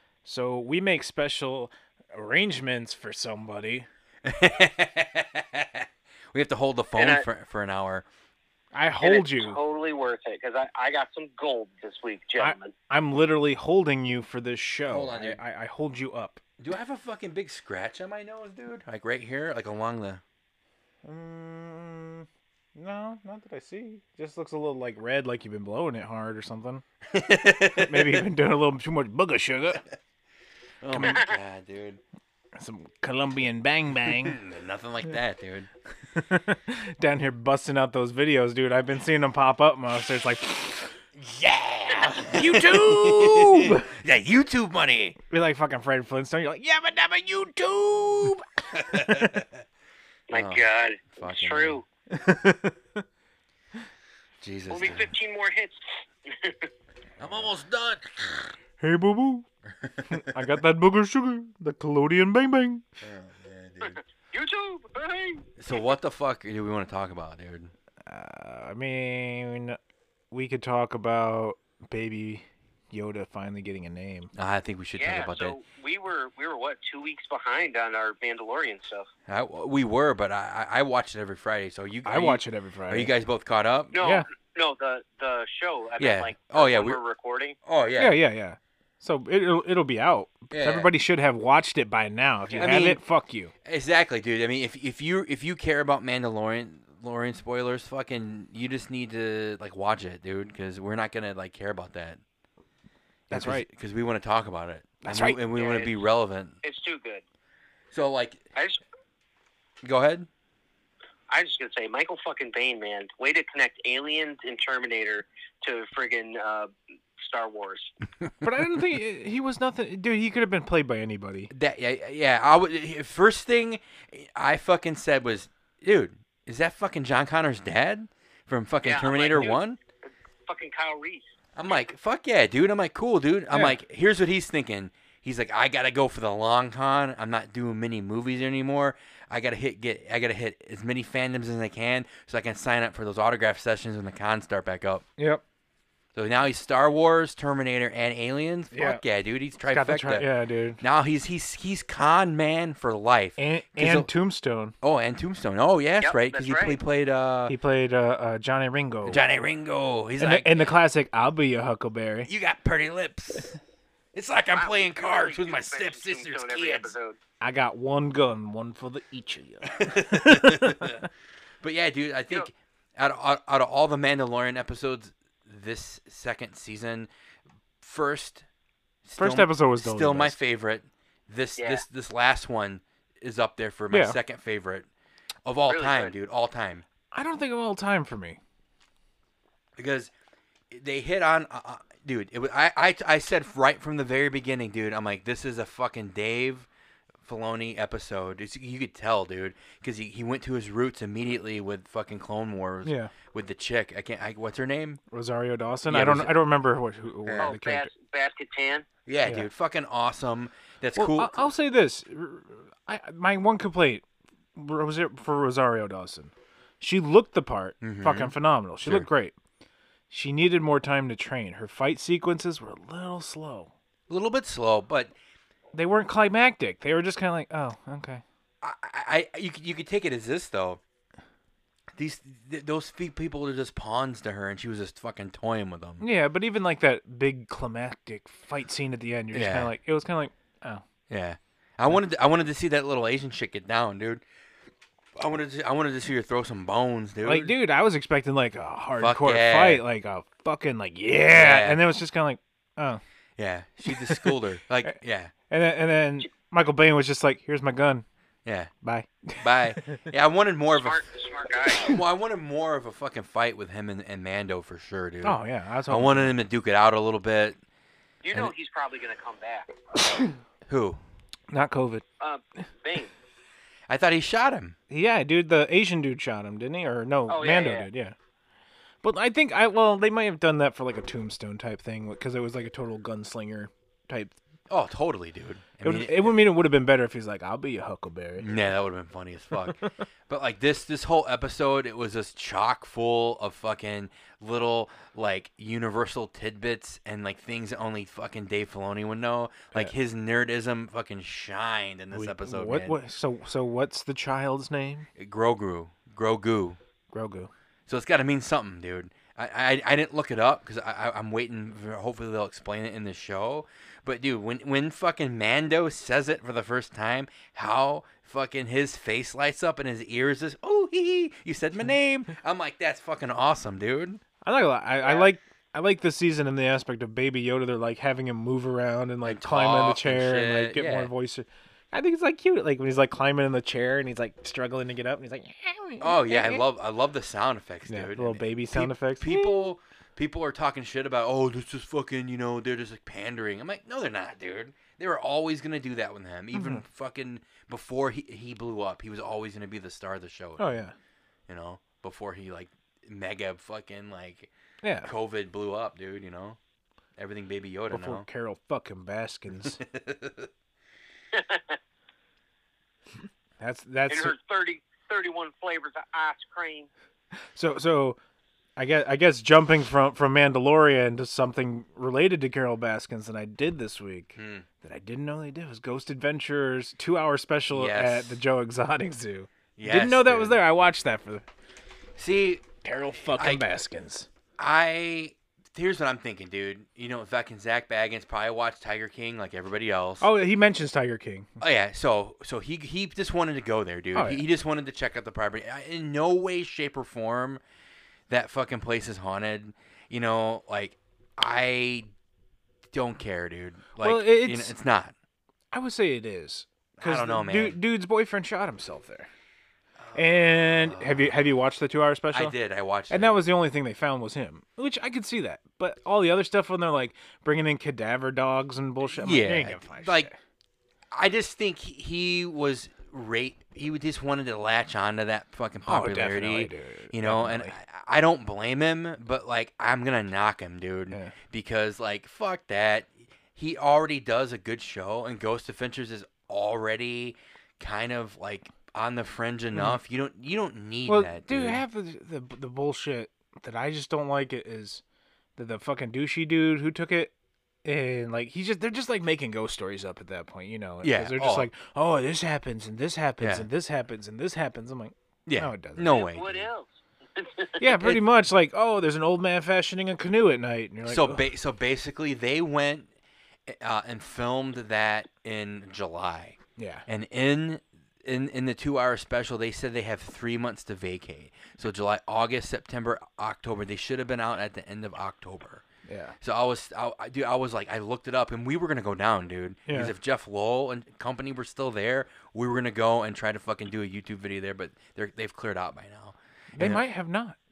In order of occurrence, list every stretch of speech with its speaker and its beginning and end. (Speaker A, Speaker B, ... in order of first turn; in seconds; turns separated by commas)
Speaker A: 0.2-3.9, Speaker B: 4.2-8.1, Speaker C: 7.0-7.2, Speaker A: 8.7-9.6, Speaker C: 9.0-12.7, Speaker A: 12.4-16.4, Speaker B: 14.9-15.4, Speaker B: 16.6-20.2, Speaker A: 21.0-26.8, Speaker B: 27.1-28.3, Speaker A: 27.7-29.9, Speaker B: 30.8-32.0, Speaker A: 30.9-31.2, Speaker C: 31.0-31.3, Speaker A: 32.5-34.4, Speaker B: 34.1-35.7, Speaker A: 36.1-41.0, Speaker B: 41.2-45.2, Speaker A: 42.3-43.9, Speaker A: 45.3-48.5, Speaker B: 48.7-49.5, Speaker C: 50.3-51.9, Speaker B: 50.3-51.8, Speaker A: 52.1-53.0, Speaker B: 54.4-55.1, Speaker C: 54.7-56.7, Speaker A: 57.2-57.5, Speaker B: 57.2-58.5, Speaker A: 58.8-59.5, Speaker B: 59.8-60.2, Speaker A: 60.1-62.8, Speaker B: 63.0-64.0, Speaker C: 63.8-65.5, Speaker B: 65.6-67.7, Speaker A: 68.1-69.8, Speaker A: 70.3-74.3, Speaker B: 74.3-75.6, Speaker C: 75.0-79.1, Speaker B: 79.3-84.0, Speaker A: 82.0-83.1, Speaker C: 83.9-87.6, Speaker B: 86.0-87.0, Speaker B: 87.7-88.2, Speaker A: 88.0-93.5, Speaker B: 90.5-90.9, Speaker B: 92.5-93.0, Speaker B: 93.7-102.2, Speaker B: 103.3-106.6, Speaker A: 103.3-103.7, Speaker A: 105.0-105.4, Speaker C: 105.5-105.9, Speaker C: 106.6-107.2, Speaker B: 107.9-108.5, Speaker C: 108.5-108.8, Speaker B: 109.8-110.3, Speaker C: 111.3-117.9, Speaker A: 118.4-121.5, Speaker B: 121.5-129.8, Speaker C: 128.8-129.6, Speaker C: 130.5-131.3, Speaker B: 131.6-145.0, Speaker A: 133.5-133.8, Speaker B: 146.1-150.2, Speaker A: 148.7-149.0, Speaker A: 149.7-150.8, Speaker B: 150.8-154.1, Speaker A: 153.4-154.7, Speaker B: 154.8-157.6, Speaker C: 156.0-156.8, Speaker A: 157.5-159.2, Speaker B: 159.1-160.5, Speaker A: 160.2-162.3, Speaker B: 162.2-163.6, Speaker B: 164.1-166.9, Speaker C: 164.5-167.2, Speaker A: 167.4-171.0, Speaker B: 169.8-171.1, Speaker B: 171.6-177.1, Speaker B: 177.8-178.4, Speaker B: 179.1-184.9, Speaker A: 179.2-180.4, Speaker C: 181.6-181.8, Speaker A: 183.9-184.2, Speaker B: 185.4-186.8, Speaker C: 185.7-186.1, Speaker A: 187.1-188.4, Speaker B: 189.8-190.1, Speaker B: 190.7-196.7, Speaker B: 197.2-205.0, Speaker A: 202.8-203.1, Speaker A: 205.1-207.9, Speaker B: 205.9-206.3, Speaker B: 207.2-207.5, Speaker C: 207.4-208.9, Speaker B: 209.1-211.5, Speaker A: 211.0-214.0, Speaker A: 214.6-219.3, Speaker B: 217.8-219.1, Speaker A: 220.1-223.7, Speaker B: 224.1-225.1, Speaker A: 225.7-228.2, Speaker B: 228.6-230.8, Speaker B: 231.9-236.0, Speaker A: 236.0-240.8, Speaker B: 239.3-239.7, Speaker B: 241.1-244.2, Speaker B: 245.2-247.5, Speaker A: 247.2-253.0, Speaker B: 249.0-249.8, Speaker B: 251.3-251.8, Speaker B: 253.4-255.3, Speaker A: 253.9-254.9, Speaker A: 255.5-258.1, Speaker B: 258.4-258.7, Speaker A: 258.8-260.0, Speaker B: 259.4-261.0, Speaker C: 260.8-261.9, Speaker B: 261.8-267.6, Speaker A: 265.2-266.3, Speaker C: 268.2-269.7, Speaker B: 270.7-271.0, Speaker A: 271.5-272.0, Speaker C: 272.2-273.1, Speaker B: 273.9-274.8, Speaker A: 274.9-278.1, Speaker C: 277.3-277.9, Speaker A: 279.0-284.4, Speaker B: 284.7-286.3, Speaker A: 285.8-288.5, Speaker B: 288.4-303.0, Speaker A: 302.1-305.1, Speaker B: 305.2-306.8, Speaker A: 307.1-307.5, Speaker B: 307.9-324.2, Speaker A: 324.4-336.6, Speaker C: 325.0-325.3, Speaker B: 329.2-331.1, Speaker B: 336.0-350.7, Speaker A: 337.9-339.7, Speaker A: 346.5-346.8, Speaker A: 350.6-350.9, Speaker B: 351.5-354.5, Speaker A: 354.8-355.1, Speaker B: 355.1-356.6, Speaker B: 357.2-358.2, Speaker A: 357.9-359.8, Speaker B: 359.8-360.5, Speaker C: 361.3-361.8, Speaker A: 363.6-364.4, Speaker C: 364.1-366.9, Speaker A: 367.6-368.2, Speaker A: 368.8-381.4, Speaker B: 374.4-374.6, Speaker B: 377.7-378.4, Speaker B: 379.8-380.6, Speaker B: 382.2-382.7, Speaker A: 382.8-384.3, Speaker B: 383.4-383.6, Speaker B: 384.6-390.3, Speaker A: 390.2-391.5, Speaker B: 391.6-397.6, Speaker A: 394.1-394.4, Speaker B: 398.3-402.1, Speaker B: 402.9-405.1, Speaker A: 404.0-404.7, Speaker A: 405.7-409.3, Speaker B: 407.0-407.8, Speaker B: 410.0-411.3, Speaker A: 410.1-412.6, Speaker B: 412.3-413.3, Speaker A: 413.1-420.4, Speaker B: 419.1-420.3, Speaker B: 421.1-441.8, Speaker A: 425.9-427.7, Speaker A: 431.1-431.4, Speaker A: 439.7-440.0, Speaker A: 441.1-445.0, Speaker A: 445.6-447.3, Speaker A: 447.9-456.2, Speaker B: 451.0-451.7, Speaker B: 453.4-453.7, Speaker B: 455.5-456.6, Speaker C: 456.1-457.8, Speaker A: 457.8-461.5, Speaker B: 461.1-463.1, Speaker B: 463.7-475.9, Speaker A: 466.8-467.1, Speaker A: 476.1-476.4, Speaker B: 476.4-487.0, Speaker A: 479.9-480.1, Speaker A: 486.7-487.6